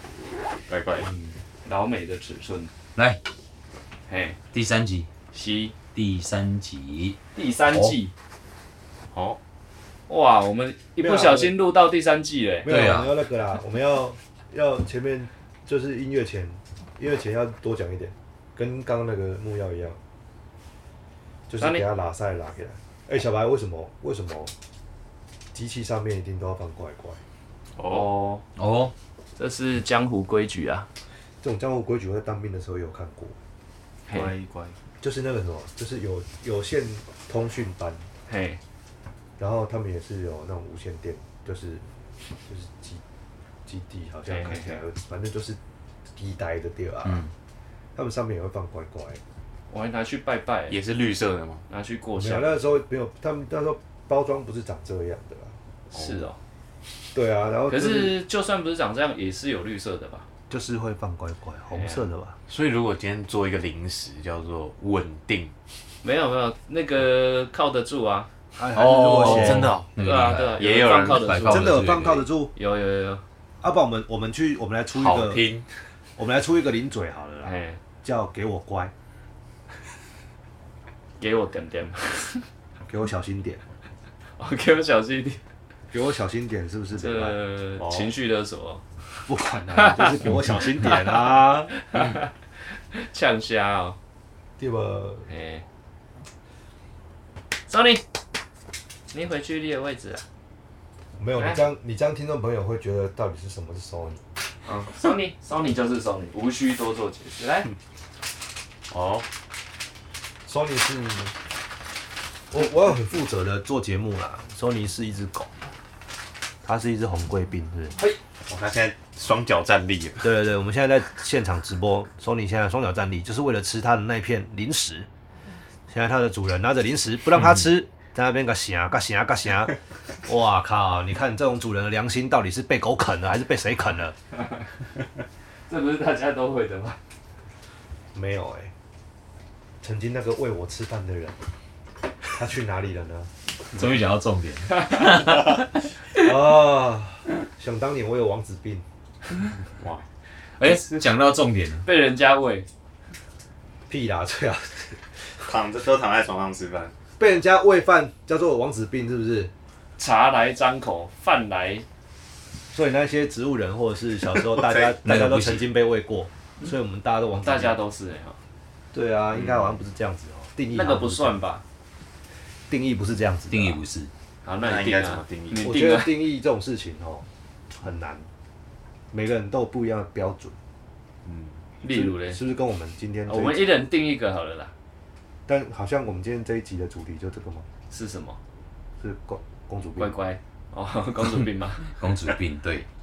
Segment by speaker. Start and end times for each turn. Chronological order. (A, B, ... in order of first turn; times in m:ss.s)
0:00.7-0:01.1 A
0:01.6-0:02.7 B
0:04.1-0:04.4 B
0:04.5-0:05.1 C
0:05.3-0:05.7 B
0:05.9-0:07.2 C
0:07.3-0:08.1 B
0:09.1-0:09.4 A
0:10.1-0:12.7 B
0:11.0-0:11.6 D
0:12.6-0:20.0 D
0:12.6-0:13.1 C
0:21.5-0:24.5 D
0:25.5-0:27.2 D
0:27.8-0:28.1 A
0:27.8-0:28.4 B
0:28.6-0:28.9 C
0:29.4-0:30.9 B
0:31.4-0:33.4 D
0:34.1-0:34.8 A
0:35.0-0:38.0 D
0:38.3-0:38.6 B
0:39.4-0:41.8 D
0:42.5-0:43.0 D
0:43.6-0:45.6 D
0:44.3-0:44.8 B
0:46.1-0:47.2 D
0:47.0-0:47.3 C
0:47.9-0:49.2 D
0:49.7-0:50.8 B
0:50.7-0:51.6 A
0:51.7-0:52.7 B
0:52.2-0:55.5 D
0:55.9-0:56.2 A
0:55.9-0:56.4 B
0:57.1-0:58.2 D
0:57.7-1:00.2 B
1:00.5-1:02.4 D
1:01.7-1:02.1 B
1:02.5-1:05.5 A
1:06.0-1:08.3 B
1:08.6-1:09.8 D
1:08.8-1:09.9 A
1:09.0-1:12.2 C
1:10.0-1:11.8 B
1:10.6-1:11.3 A
1:11.3-1:12.5 D
1:12.5-1:13.2 B
1:13.6-1:15.4 D
1:14.9-1:15.6 A
1:16.2-1:17.5 D
1:17.4-1:17.8 B
1:18.0-1:18.9 D
1:21.2-1:22.4 B
1:22.9-1:23.6 D
1:24.4-1:25.4 B
1:25.9-1:27.4 D
1:27.0-1:28.8 B
1:27.8-1:28.1 A
1:29.3-1:31.7 D
1:29.7-1:31.0 B
1:31.8-1:32.3 B
1:32.9-1:34.0 B
1:34.6-1:35.3 D
1:35.3-1:35.6 B
1:37.7-1:38.0 B
1:39.1-1:40.2 B
1:41.2-1:44.2 D
1:41.3-1:41.6 B
1:44.6-1:47.7 B
1:48.9-1:49.2 A
1:50.5-1:51.3 D
1:52.5-1:55.5 D
1:56.6-1:58.1 D
1:58.4-2:00.3 A
2:00.2-2:05.1 D
2:05.9-2:14.1 D
2:15.7-2:17.0 B
2:18.1-2:18.7 D
2:19.8-2:21.4 D
2:22.3-2:23.3 D
2:23.7-2:25.8 C
2:26.1-2:28.8 D
2:29.8-2:30.0 A
2:30.6-2:31.8 C
2:31.8-2:32.7 B
2:33.9-2:35.0 D
2:35.4-2:36.9 A
2:37.2-2:39.5 D
2:40.0-2:41.8 B
2:42.7-2:47.8 D
2:44.5-2:45.0 A
2:45.0-2:45.7 C
2:47.4-2:48.4 B
2:48.9-2:51.4 D
2:49.3-2:49.8 A
2:50.7-2:51.6 B
2:52.7-2:53.8 D
2:53.5-2:54.1 C
2:54.4-2:56.3 B
2:54.6-2:55.7 A
2:55.6-2:58.3 D
2:59.1-3:00.6 D
3:01.2-3:01.6 A
3:01.8-3:02.4 B
3:01.8-3:03.8 D
3:03.3-3:04.7 B
3:05.5-3:07.7 D
3:07.9-3:08.4 B
3:09.0-3:10.2 D
3:10.0-3:11.9 B
3:11.8-3:12.8 C